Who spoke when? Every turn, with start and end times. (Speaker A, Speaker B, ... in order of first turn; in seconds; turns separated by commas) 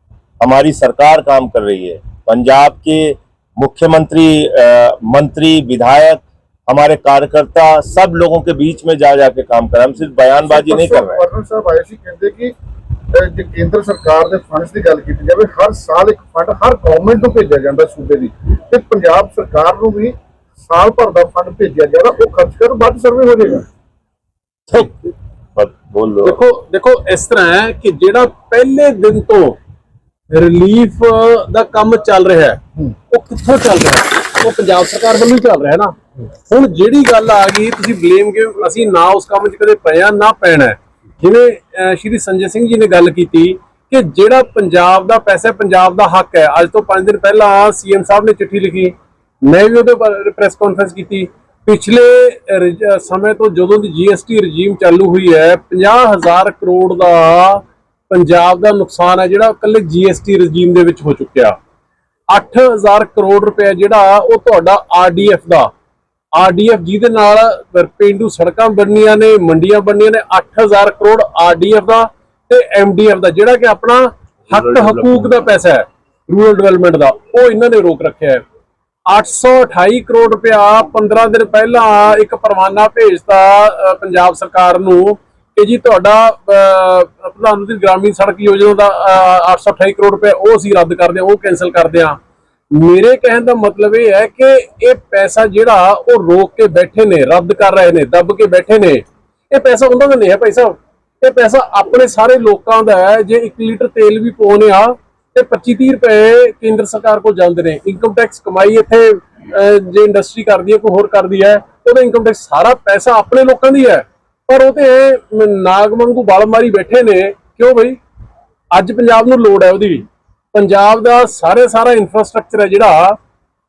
Speaker A: 0.4-11.2, Speaker B: 10.4-12.5, Speaker B: 13.1-23.6, Speaker A: 24.7-25.0, Speaker A: 25.5-26.4, Speaker C: 26.2-29.6, Speaker C: 30.3-32.6, Speaker C: 33.1-36.0, Speaker C: 36.5-61.6, Speaker C: 62.3-65.7, Speaker C: 66.3-78.4, Speaker A: 74.5-75.2, Speaker C: 79.1-92.2, Speaker C: 92.7-118.0, Speaker C: 118.7-123.2